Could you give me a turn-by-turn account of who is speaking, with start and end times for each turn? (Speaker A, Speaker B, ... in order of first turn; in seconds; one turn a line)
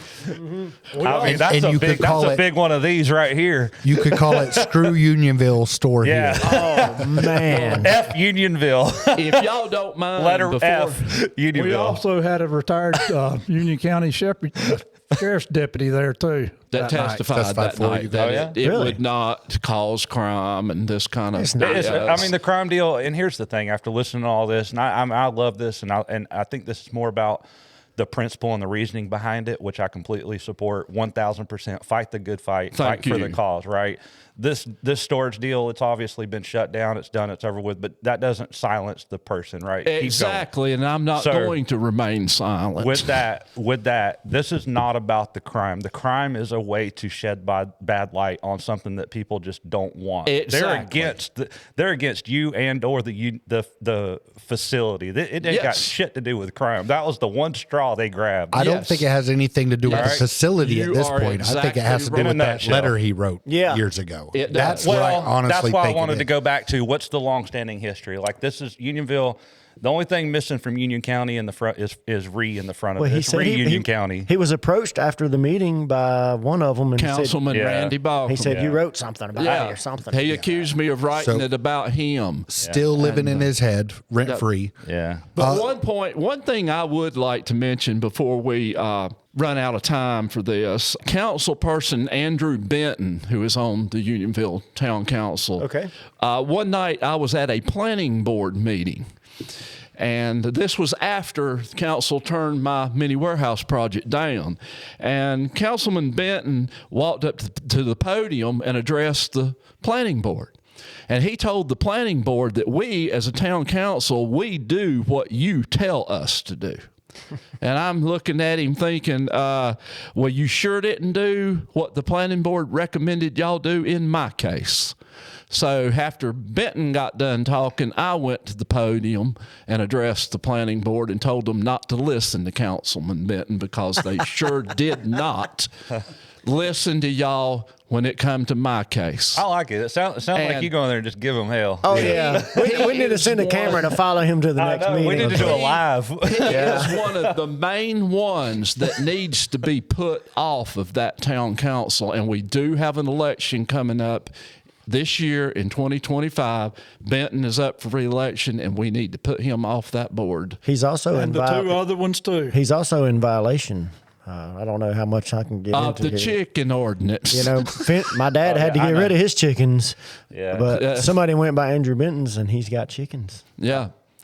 Speaker A: 0.9-4.9
Speaker B: 0.9-1.5
Speaker C: 1.0-2.4
Speaker C: 3.8-6.6
Speaker A: 6.0-9.4
Speaker D: 6.4-8.0
Speaker E: 9.1-11.1
Speaker A: 10.2-12.0
Speaker B: 11.5-17.2
Speaker E: 16.7-22.3
Speaker C: 17.3-18.5
Speaker A: 18.2-18.6
Speaker D: 18.6-19.0
Speaker D: 21.3-22.1
Speaker A: 21.6-27.4
Speaker A: 28.0-40.5
Speaker E: 32.7-33.4
Speaker E: 39.8-43.2
Speaker A: 41.1-41.6
Speaker A: 42.8-58.6
Speaker E: 50.2-51.2
Speaker E: 55.4-55.9
Speaker C: 58.5-66.3
Speaker E: 58.5-59.1
Speaker E: 59.9-62.5
Speaker A: 59.9-60.2
Speaker A: 62.1-62.9
Speaker D: 63.5-63.8
Speaker E: 64.3-65.0
Speaker A: 64.8-74.3
Speaker D: 73.0-77.4
Speaker E: 77.0-78.7
Speaker A: 77.5-78.8
Speaker D: 78.2-80.6
Speaker E: 79.3-83.5
Speaker A: 79.4-79.8
Speaker C: 81.1-81.5
Speaker C: 82.5-84.7
Speaker A: 84.8-85.3
Speaker E: 85.3-95.7
Speaker C: 85.4-85.7
Speaker D: 95.6-95.9
Speaker E: 96.2-99.1
Speaker E: 100.0-110.5
Speaker E: 111.1-116.8
Speaker E: 117.6-124.9
Speaker E: 125.5-135.7
Speaker E: 136.4-139.4
Speaker A: 139.3-143.0
Speaker E: 140.3-140.7
Speaker D: 141.8-145.7
Speaker E: 141.9-143.9
Speaker A: 144.6-147.3
Speaker E: 145.2-154.3
Speaker D: 146.4-146.9
Speaker E: 154.8-160.6
Speaker D: 160.6-161.8
Speaker B: 161.1-162.6
Speaker D: 162.5-166.4
Speaker E: 165.7-167.8
Speaker D: 167.3-170.0
Speaker A: 168.4-169.1
Speaker A: 170.3-170.7
Speaker D: 170.5-173.5
Speaker E: 170.7-171.2
Speaker E: 173.6-173.9